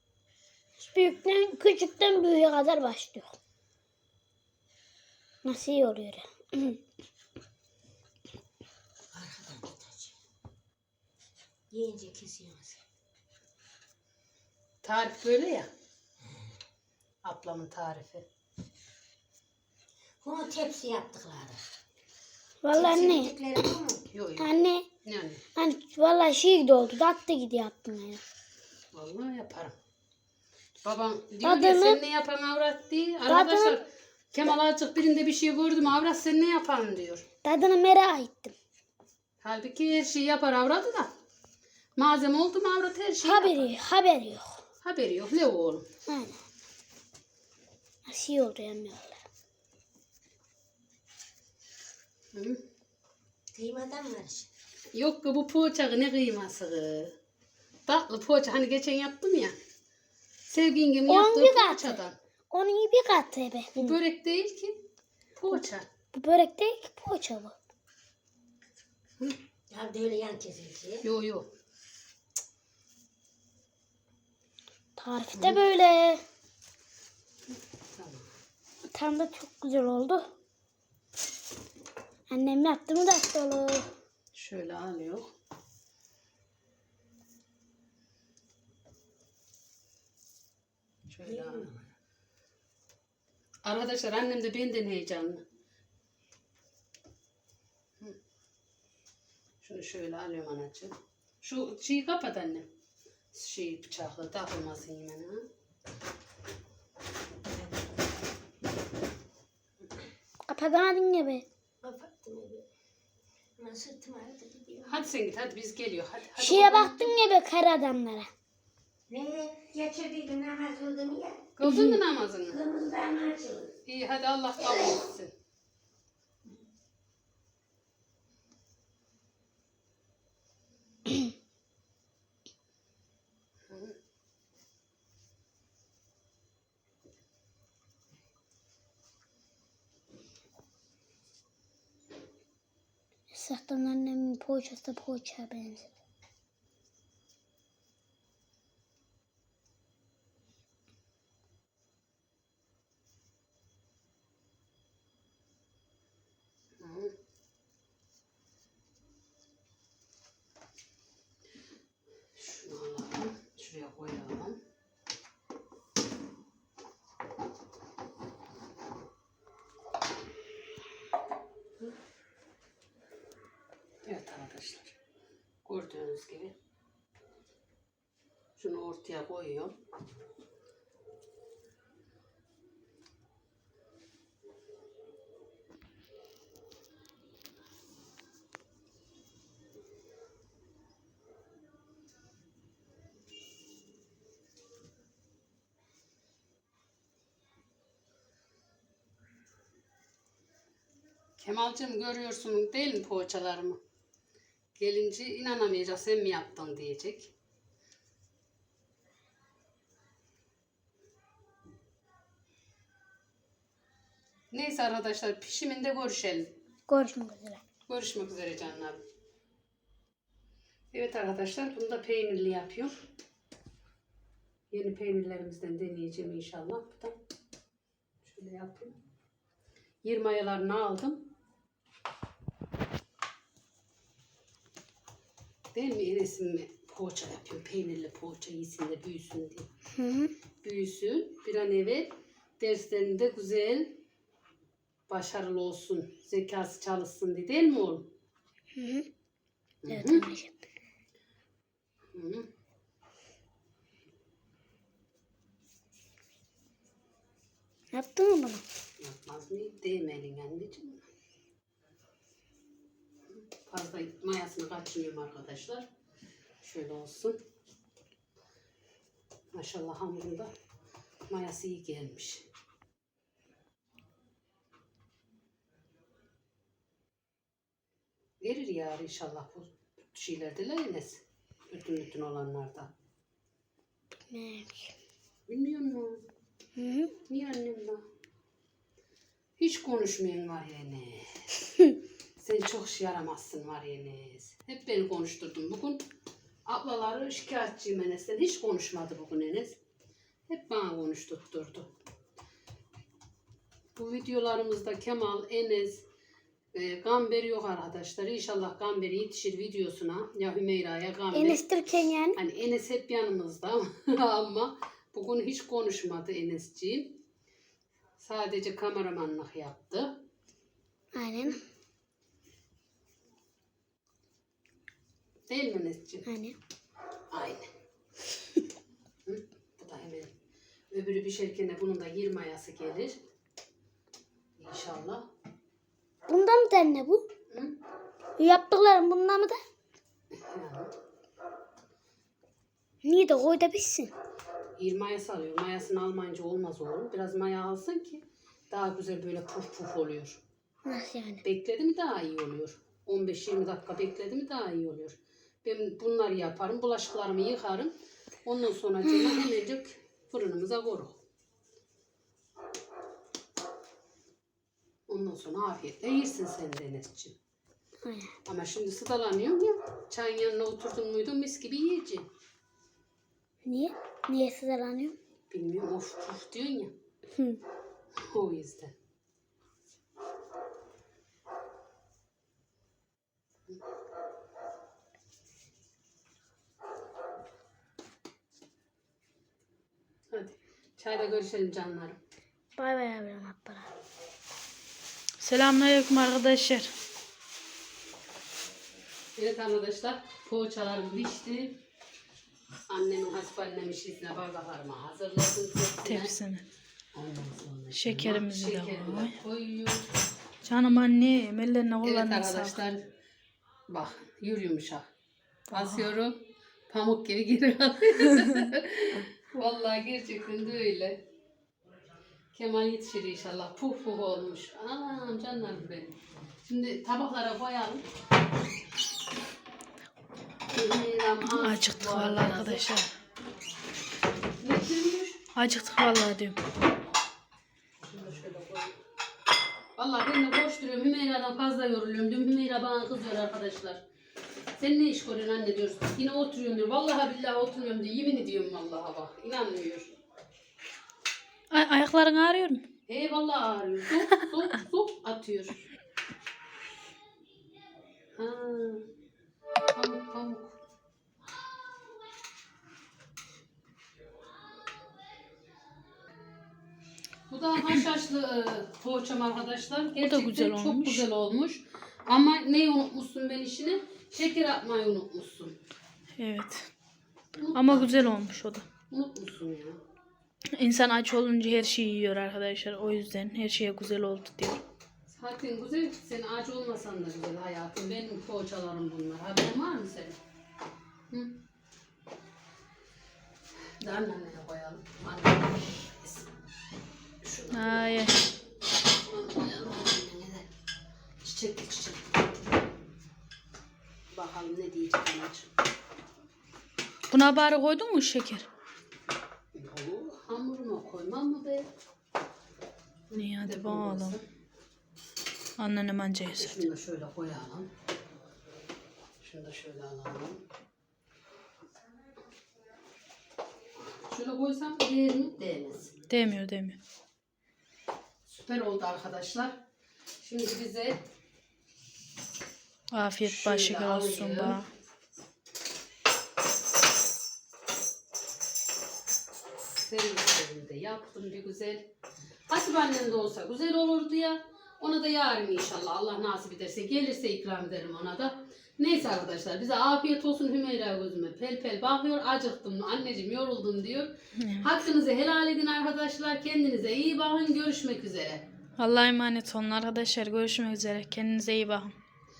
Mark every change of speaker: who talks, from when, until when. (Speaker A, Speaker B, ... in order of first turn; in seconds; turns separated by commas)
Speaker A: 0.8-3.3, Speaker A: 5.4-6.8, Speaker B: 9.1-10.2, Speaker B: 11.7-12.8, Speaker C: 14.8-15.7, Speaker C: 17.2-18.3, Speaker B: 20.2-21.6, Speaker A: 22.6-23.3, Speaker B: 22.7-24.0, Speaker C: 24.1-24.5, Speaker A: 24.4-24.8, Speaker C: 25.0-25.4, Speaker A: 25.6-28.2, Speaker C: 28.9-29.8, Speaker C: 30.8-37.2, Speaker A: 31.4-32.0, Speaker A: 33.3-33.8, Speaker A: 37.4-38.5, Speaker C: 39.4-41.1, Speaker C: 42.0-43.8, Speaker A: 43.2-44.6, Speaker C: 44.8-45.9, Speaker A: 46.1-46.4, Speaker A: 48.0-49.2, Speaker C: 52.3-52.6, Speaker B: 53.5-54.5, Speaker C: 54.9-57.1, Speaker C: 57.9-59.5, Speaker C: 60.5-62.1, Speaker A: 61.1-64.0, Speaker C: 63.8-64.8, Speaker C: 65.4-65.9, Speaker A: 66.1-67.5, Speaker B: 69.7-71.0, Speaker C: 71.0-71.5, Speaker A: 75.0-76.2, Speaker C: 75.4-75.6, Speaker C: 77.9-78.3, Speaker A: 78.9-80.2, Speaker A: 82.3-83.9, Speaker C: 84.3-85.3, Speaker C: 91.1-91.7, Speaker B: 91.2-91.8, Speaker C: 93.6-95.4, Speaker C: 99.6-102.7, Speaker C: 103.3-105.5, Speaker A: 110.5-111.4, Speaker B: 111.8-112.6, Speaker B: 113.6-115.0, Speaker C: 114.9-117.2, Speaker A: 116.4-118.3, Speaker B: 119.1-121.5, Speaker C: 121.6-122.6, Speaker A: 121.6-122.0, Speaker B: 122.5-123.7, Speaker C: 123.9-125.3, Speaker C: 133.7-134.0, Speaker A: 143.3-145.9, Speaker C: 156.8-157.1, Speaker C: 162.3-164.6, Speaker C: 174.0-174.9, Speaker C: 175.6-176.5, Speaker C: 178.6-179.8, Speaker C: 201.4-203.8, Speaker C: 204.8-207.3, Speaker C: 214.5-216.5, Speaker A: 216.9-217.6, Speaker C: 217.9-219.0, Speaker C: 220.9-223.0, Speaker C: 224.7-227.2, Speaker C: 228.2-229.0, Speaker C: 230.0-231.3, Speaker C: 235.7-239.7, Speaker A: 240.0-240.3, Speaker C: 240.6-244.0, Speaker C: 245.1-248.1, Speaker A: 248.8-249.1, Speaker C: 249.8-250.2, Speaker A: 249.9-250.5, Speaker C: 252.1-252.5, Speaker A: 257.9-258.6, Speaker C: 259.0-261.1, Speaker C: 263.3-265.9, Speaker C: 266.6-267.4, Speaker C: 269.5-270.5, Speaker C: 271.3-272.4, Speaker C: 278.4-282.9, Speaker A: 284.3-284.9, Speaker C: 285.5-286.2, Speaker A: 286.8-287.1, Speaker C: 287.3-288.0, Speaker C: 289.6-291.5, Speaker C: 292.4-296.0, Speaker C: 296.6-299.8, Speaker C: 300.5-301.9, Speaker C: 303.9-306.0, Speaker C: 306.7-311.6, Speaker A: 311.3-312.4, Speaker C: 312.3-317.2, Speaker C: 318.2-320.2, Speaker A: 321.1-321.6, Speaker C: 325.5-326.3, Speaker A: 326.3-326.6, Speaker C: 327.3-327.7, Speaker C: 329.2-330.3, Speaker C: 330.9-333.2, Speaker C: 334.6-335.3, Speaker A: 336.3-337.3, Speaker C: 337.5-337.8, Speaker A: 338.4-339.6, Speaker C: 340.3-340.9, Speaker A: 343.0-344.1, Speaker C: 344.8-350.4, Speaker A: 350.9-351.4, Speaker C: 351.4-357.9, Speaker C: 358.4-361.2, Speaker C: 365.1-367.3, Speaker A: 368.0-368.3, Speaker C: 368.4-372.3, Speaker A: 373.6-375.1, Speaker C: 375.5-376.9, Speaker C: 378.1-378.9, Speaker C: 390.3-392.2, Speaker A: 392.8-393.9, Speaker D: 395.4-396.9, Speaker C: 399.4-401.8, Speaker C: 402.9-406.3, Speaker D: 406.0-406.6, Speaker C: 407.1-410.1, Speaker D: 407.9-409.4, Speaker D: 410.6-412.8, Speaker C: 412.0-413.0, Speaker C: 413.9-415.1, Speaker D: 415.7-416.1, Speaker C: 415.7-421.2, Speaker C: 422.5-428.1, Speaker C: 430.7-432.9, Speaker D: 431.5-433.1, Speaker C: 434.6-435.4, Speaker D: 435.6-436.6, Speaker C: 438.0-439.0, Speaker C: 440.0-444.0, Speaker C: 444.8-450.1, Speaker D: 451.7-452.8, Speaker C: 453.1-455.9, Speaker C: 458.4-459.1, Speaker C: 459.9-460.8, Speaker C: 467.5-475.8, Speaker D: 470.2-471.2, Speaker D: 476.4-476.9, Speaker C: 477.6-478.1, Speaker D: 477.7-478.9, Speaker C: 479.1-480.0, Speaker D: 480.8-484.8, Speaker C: 485.3-490.4, Speaker C: 491.3-491.6, Speaker C: 494.0-496.5, Speaker C: 497.4-498.2, Speaker D: 497.7-498.4, Speaker C: 499.2-500.6, Speaker C: 501.4-502.6, Speaker C: 504.3-505.7, Speaker D: 507.3-508.6, Speaker C: 509.7-511.9, Speaker C: 513.3-514.4, Speaker D: 513.4-514.4, Speaker D: 515.8-516.9, Speaker C: 516.5-517.9, Speaker C: 519.4-520.6, Speaker C: 524.3-526.1, Speaker D: 526.3-527.0, Speaker C: 528.5-529.8, Speaker C: 530.4-531.2, Speaker D: 533.1-534.9, Speaker C: 533.4-534.8, Speaker C: 540.0-542.1, Speaker C: 542.7-558.6, Speaker D: 554.6-554.9, Speaker D: 559.0-562.1